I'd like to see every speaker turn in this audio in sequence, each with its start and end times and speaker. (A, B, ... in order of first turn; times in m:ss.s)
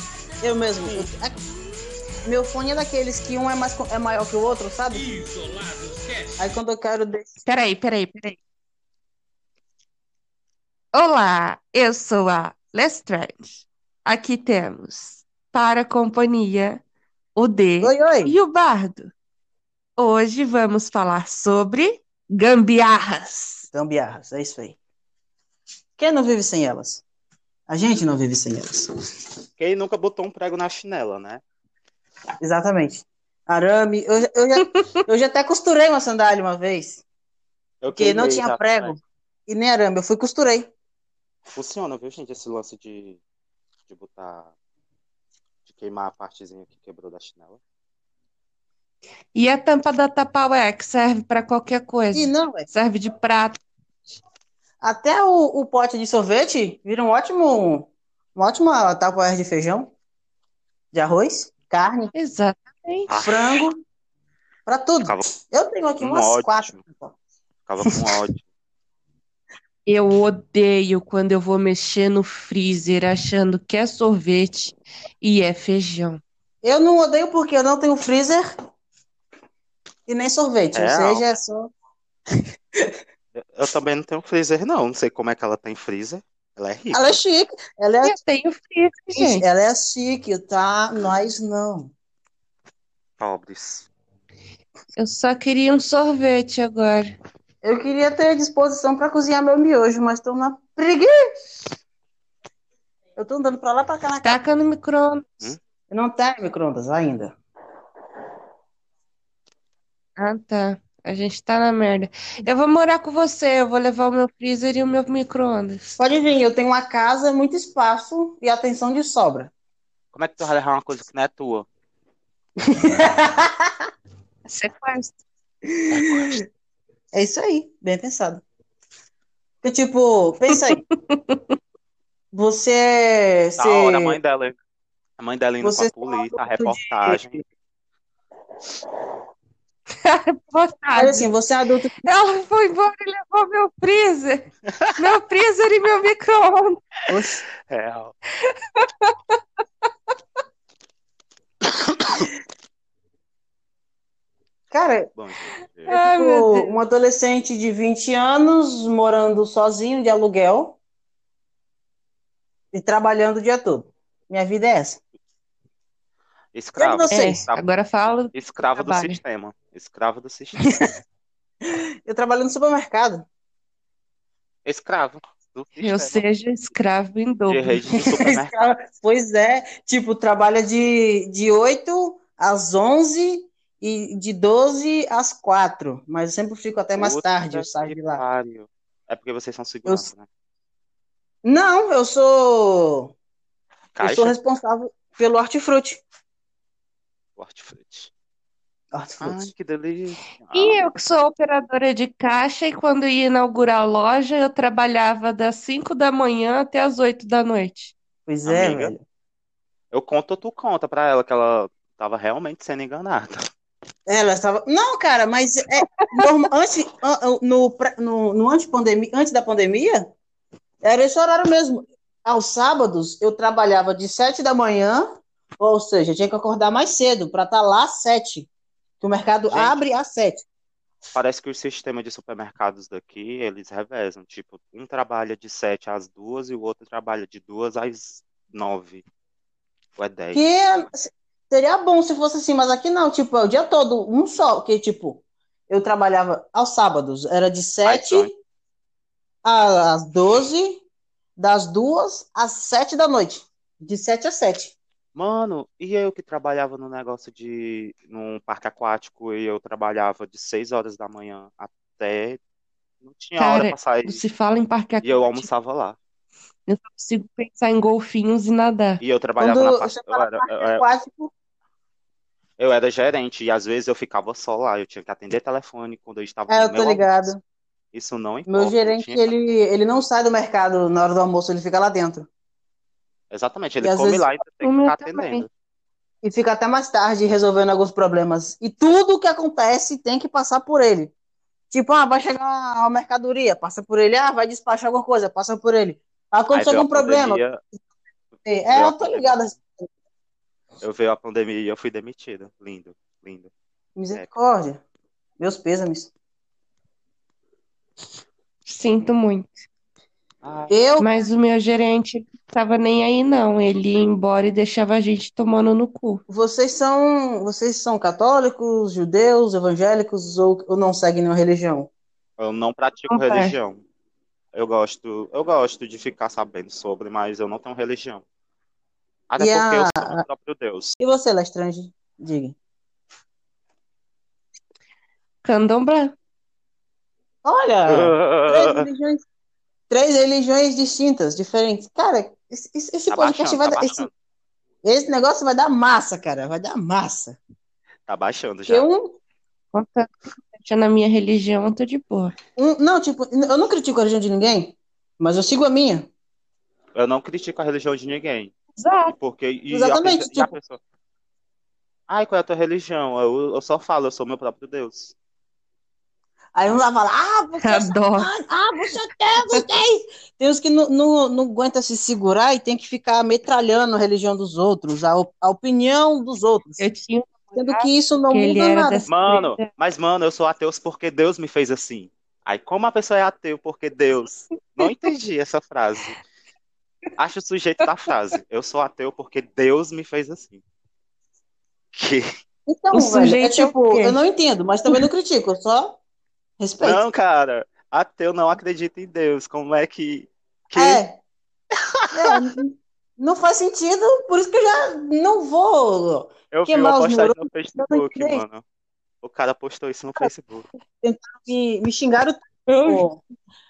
0:00.4-0:01.4 A
0:02.2-0:05.1 A
0:06.4-0:07.4 A
0:07.4-0:08.4 B
0:10.9-0:16.8 B
0:17.4-0:19.1 B
0:17.8-0:18.4 A
0:20.0-0:23.7 B
0:23.7-0:24.8 A
0:26.0-0:27.0 A
0:27.7-0:28.9 A
0:29.6-0:31.4 C
0:32.4-0:37.0 A
0:37.8-0:39.0 C
0:37.9-0:40.7 A
0:41.5-0:43.2 C
0:43.9-0:44.5 C
0:45.7-0:47.6 C
0:49.3-0:53.6 B
0:52.1-0:52.7 A
0:54.8-0:59.9 A
1:00.9-1:02.1 A
1:02.2-1:03.1 B
1:03.1-1:03.7 C
1:03.2-1:03.8 A
1:04.7-1:07.2 A
1:05.0-1:05.4 C
1:06.0-1:06.8 C
1:07.7-1:08.4 C
1:09.9-1:16.2 B
1:16.6-1:18.5 A
1:20.1-1:21.7 A
1:20.7-1:21.3 C
1:23.4-1:27.2 C
1:26.9-1:28.2 A
1:28.0-1:29.4 B
1:29.1-1:31.9 A
1:33.2-1:33.9 C
1:35.0-1:37.1 B
1:37.6-1:41.2 A
1:43.2-1:44.4 A
1:44.2-1:45.5 B
1:45.9-1:47.4 A
1:50.2-1:55.8 B
1:56.0-1:59.5 A
2:00.1-2:01.7 C
2:02.7-2:03.7 A
2:04.5-2:05.2 B
2:05.9-2:06.4 C
2:06.1-2:06.4 A
2:07.1-2:08.4 A
2:09.6-2:10.8 A
2:10.5-2:11.4 B
2:12.3-2:14.2 A
2:13.6-2:14.6 C
2:15.2-2:17.4 C
2:15.6-2:17.2 A
2:20.0-2:21.3 B
2:21.0-2:21.9 A
2:22.0-2:26.8 B
2:27.1-2:27.4 A
2:27.7-2:28.1 C
2:28.8-2:29.1 B
2:34.7-2:35.1 A
2:35.2-2:36.0 C
2:35.9-2:36.8 B
2:35.9-2:40.8 A
2:42.7-2:45.0 A
2:46.5-2:47.7 C
2:46.8-2:47.4 A
2:47.1-2:49.2 B
2:48.3-2:50.8 C
2:51.7-2:53.2 A
2:54.7-2:56.3 C
2:55.8-2:57.8 B
2:57.5-2:58.8 C
2:58.0-3:08.2 A
3:07.0-3:10.3 C
3:11.4-3:13.1 A
3:14.0-3:14.4 C
3:14.0-3:16.0 A
3:17.4-3:18.1 C
3:18.9-3:19.5 A
3:19.2-3:21.0 C
3:20.5-3:27.9 B
3:28.3-3:29.0 A
3:28.4-3:28.9 C
3:29.9-3:33.4 C
3:34.1-3:40.1 A
3:40.8-3:45.1 A
3:45.6-3:48.5 A
3:49.0-3:50.4 A
3:49.5-3:49.8 C
3:51.1-3:59.0 C
4:00.0-4:00.5 C
4:00.3-4:08.3 A
4:07.8-4:08.3 C
4:09.4-4:10.8 A
4:11.4-4:14.8 A
4:15.2-4:22.4 C
4:23.0-4:24.2 C
4:23.4-4:25.5 B
4:25.0-4:26.0 C
4:26.7-4:29.0 B
4:29.0-4:30.9 C
4:29.4-4:31.3 A
4:32.6-4:37.3 C
4:36.5-4:37.4 A
4:37.9-4:39.3 C
4:38.5-4:42.3 A
4:43.3-4:45.5 C
4:43.8-4:44.2 A
4:44.6-4:45.5 B
4:46.2-4:51.1 A
4:51.7-4:57.5 A
4:56.5-4:57.6 C
4:58.4-4:59.9 A
4:58.7-4:59.5 C
5:00.8-5:03.5 C
5:04.0-5:04.8 A
5:05.4-5:06.1 A
5:08.7-5:09.6 B
5:10.4-5:10.8 C
5:10.7-5:11.2 A
5:11.0-5:16.2 B
5:16.3-5:21.9 A
5:22.4-5:23.8 C
5:23.1-5:23.5 B
5:24.5-5:28.2 C
5:29.3-5:31.0 C
5:29.4-5:30.2 A
5:31.0-5:32.6 A
5:35.4-5:36.2 B
5:37.4-5:39.2 A
5:37.9-5:38.9 C
5:39.9-5:44.1 A
5:43.1-5:44.1 C
5:44.8-5:47.4 A
5:48.1-5:48.9 C
5:48.7-5:49.2 A
5:49.7-5:52.3 B
5:52.6-5:56.1 A
5:57.0-5:58.5 C
5:58.8-5:59.2 B
5:59.1-6:00.8 C
5:59.7-6:00.6 A
6:02.1-6:05.2 C
6:06.6-6:16.8 A
6:07.6-6:08.3 B
6:16.8-6:19.7 B
6:17.5-6:19.0 A
6:19.1-6:26.2 C
6:27.2-6:30.6 C
6:31.9-6:32.2 C
6:32.7-6:36.0 A
6:32.9-6:34.2 B
6:36.6-6:37.0 A
6:36.8-6:41.0 C
6:40.8-6:41.2 A
6:42.0-6:42.3 C
6:42.1-6:48.4 A
6:46.5-6:48.6 C
6:49.2-6:50.6 C
6:51.0-6:53.2 A
6:52.7-6:53.0 B